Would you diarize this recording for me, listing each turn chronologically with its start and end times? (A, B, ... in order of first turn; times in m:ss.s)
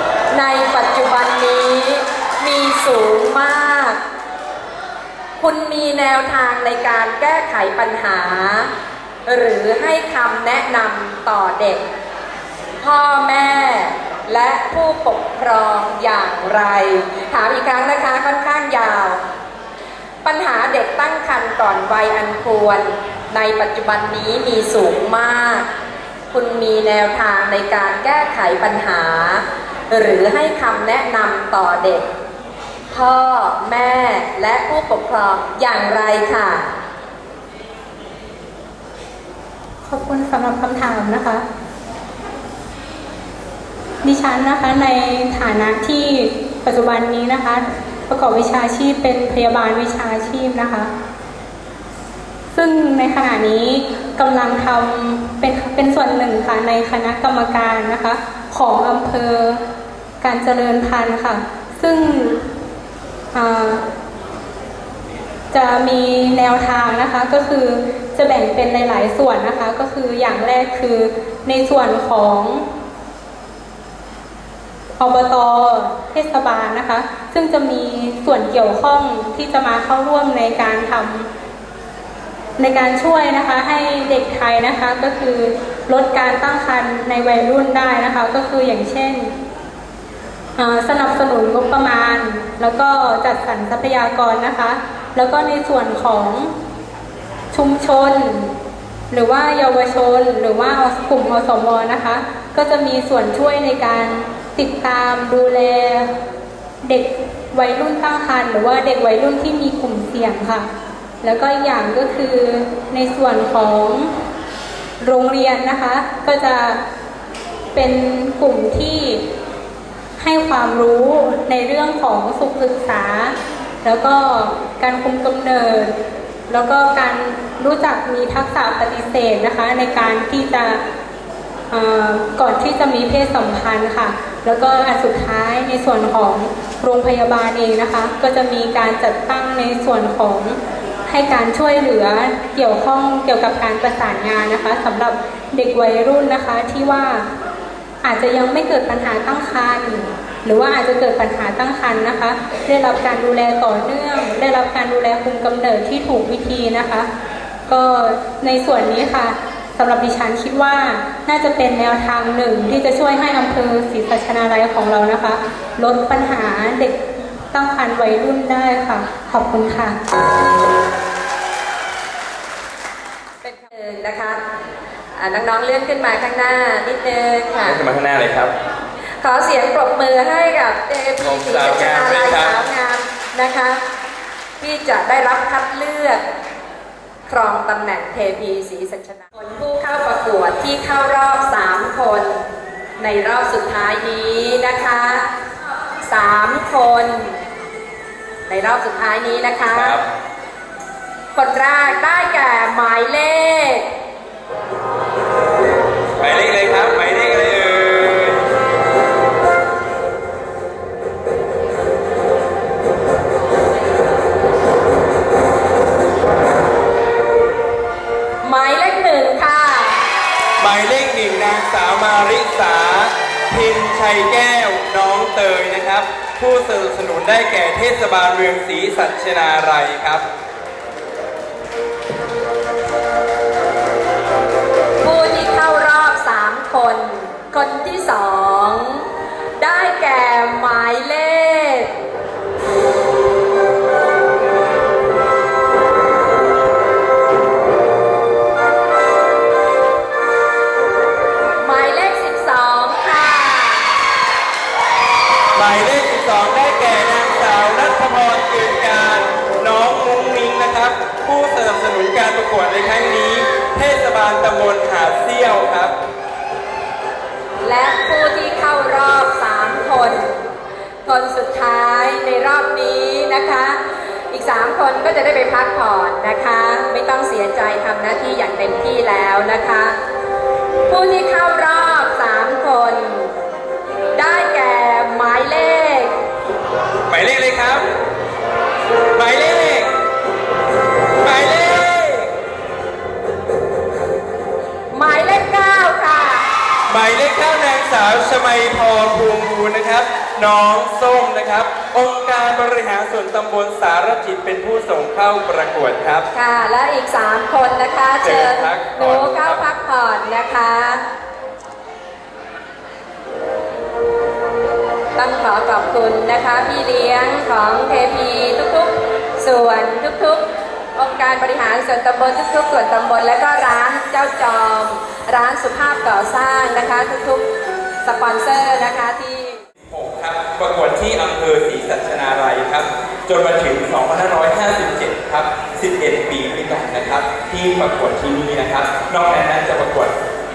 0:00.3-0:04.0 A
0:05.4-0:08.7 A
0:09.3-0:11.8 A
0:12.8-0:19.2 A
0:20.2-0:25.7 A
0:26.3-0:32.1 A
0:32.9-0:36.6 A
0:39.8-0:41.4 B
0:44.0-0:50.9 B
0:52.5-0:59.6 B
1:00.2-1:02.4 B
1:03.3-1:03.8 B
1:05.5-1:12.6 B
1:15.0-1:21.3 B
1:22.6-1:29.3 B
1:30.6-1:36.5 B
1:37.5-1:38.5 B
1:39.1-1:46.1 B
1:46.8-1:50.7 B
1:51.2-1:54.1 B
1:55.0-1:56.8 B
1:57.7-1:59.2 B
2:00.2-2:05.9 B
2:06.5-2:10.8 B
2:11.7-2:27.3 B
2:28.0-2:37.1 B
2:37.7-2:50.0 B
2:53.4-2:54.4 A
2:55.2-2:57.8 A
2:57.6-2:58.5 C
2:59.2-3:03.8 A
3:01.2-3:02.6 C
3:04.6-3:06.2 A
3:07.3-3:12.4 A
3:13.0-3:15.2 A
3:16.0-3:17.3 A
3:18.5-3:20.0 A
3:19.7-3:20.0 C
3:21.3-3:23.9 A
3:26.2-3:28.4 C
3:38.4-3:40.0 A
3:40.6-3:50.2 C
3:55.0-3:59.0 A
3:59.6-4:01.9 A
4:11.6-4:13.9 A
4:15.5-4:25.9 C
4:27.6-4:30.3 A
4:31.0-4:33.8 A
4:34.3-4:39.9 A
4:40.9-4:43.3 A
4:44.2-4:46.1 A
4:47.1-4:47.8 C
4:49.1-4:49.9 C
4:51.2-4:52.3 C
4:54.9-4:56.4 A
4:56.9-5:06.2 C
5:06.3-5:11.0 A
5:08.2-5:09.6 C
5:15.2-5:20.4 A
5:21.0-5:27.4 A
5:28.0-5:29.6 A
5:29.9-5:40.2 C